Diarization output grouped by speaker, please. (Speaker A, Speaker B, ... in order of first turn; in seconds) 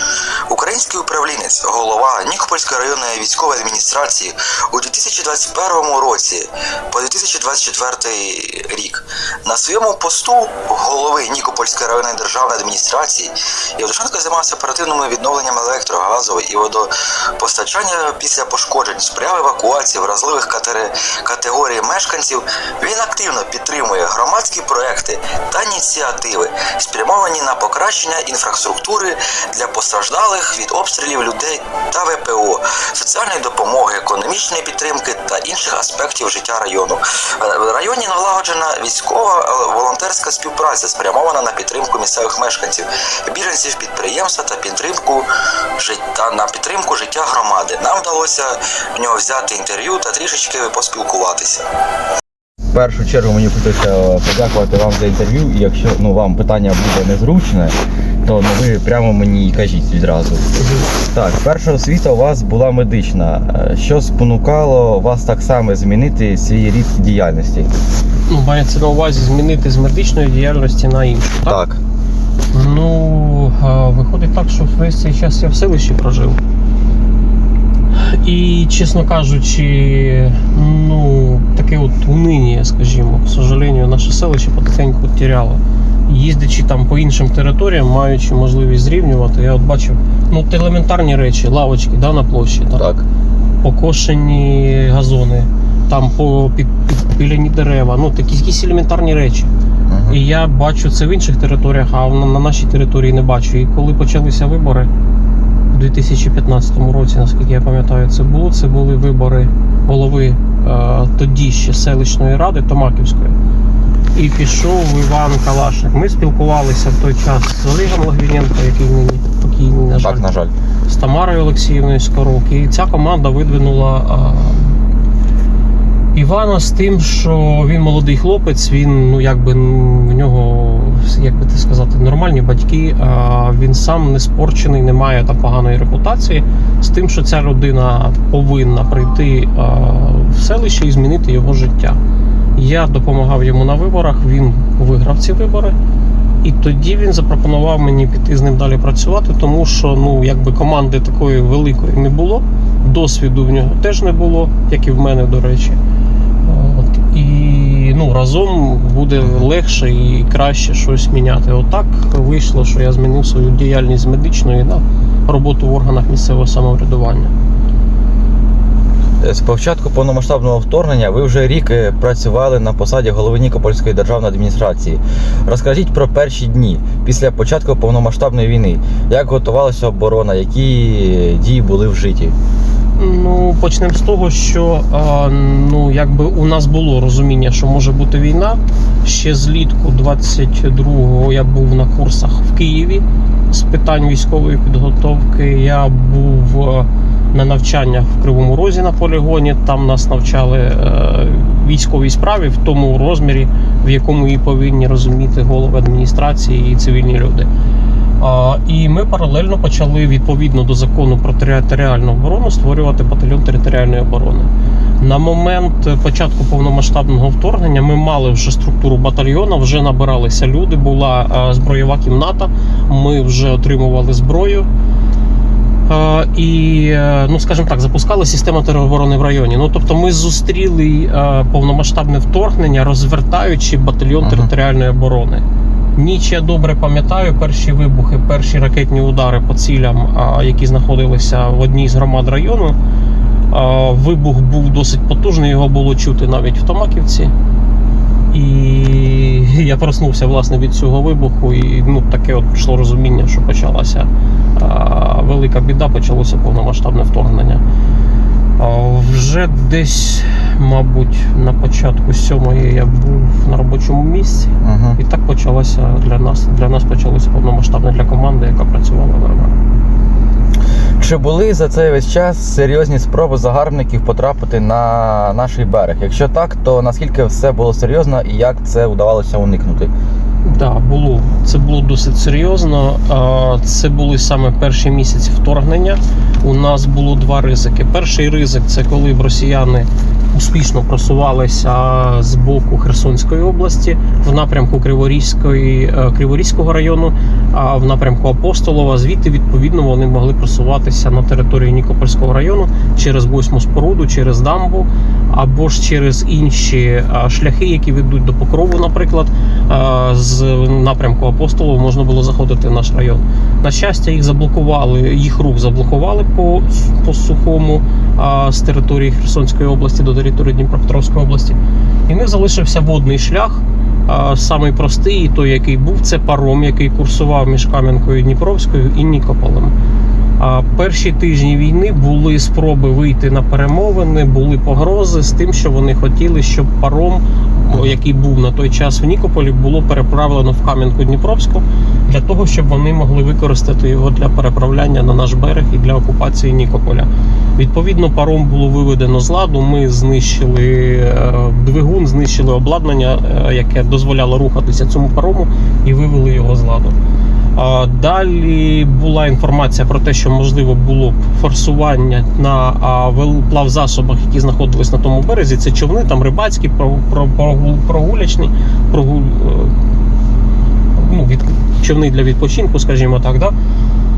Speaker A: 0.5-45.3, 45.8-51.7
Speaker B: 52.7-57.7, 58.2-60.5, 61.1-67.7, 71.5-71.8, 92.8-93.0, 99.9-100.2, 119.9-120.5, 169.2-182.3, 234.2-234.5, 264.6-265.0, 271.0-279.9, 337.7-338.0
Speaker C: 60.6-60.9, 68.3-71.6, 72.5-76.4, 77.9-92.9, 93.6-99.5, 100.1-104.9, 105.7-113.4, 114.2-120.3, 120.9-124.8, 126.1-142.0, 142.6-145.8, 146.4-155.8, 156.4-167.3, 183.0-207.5, 208.2-224.7, 225.9-235.4, 236.0-242.8, 243.5-247.3, 248.3-257.6, 258.6-269.6, 280.4-321.6, 322.1-329.7, 330.4-357.0, 357.6-369.8, 371.0-373.5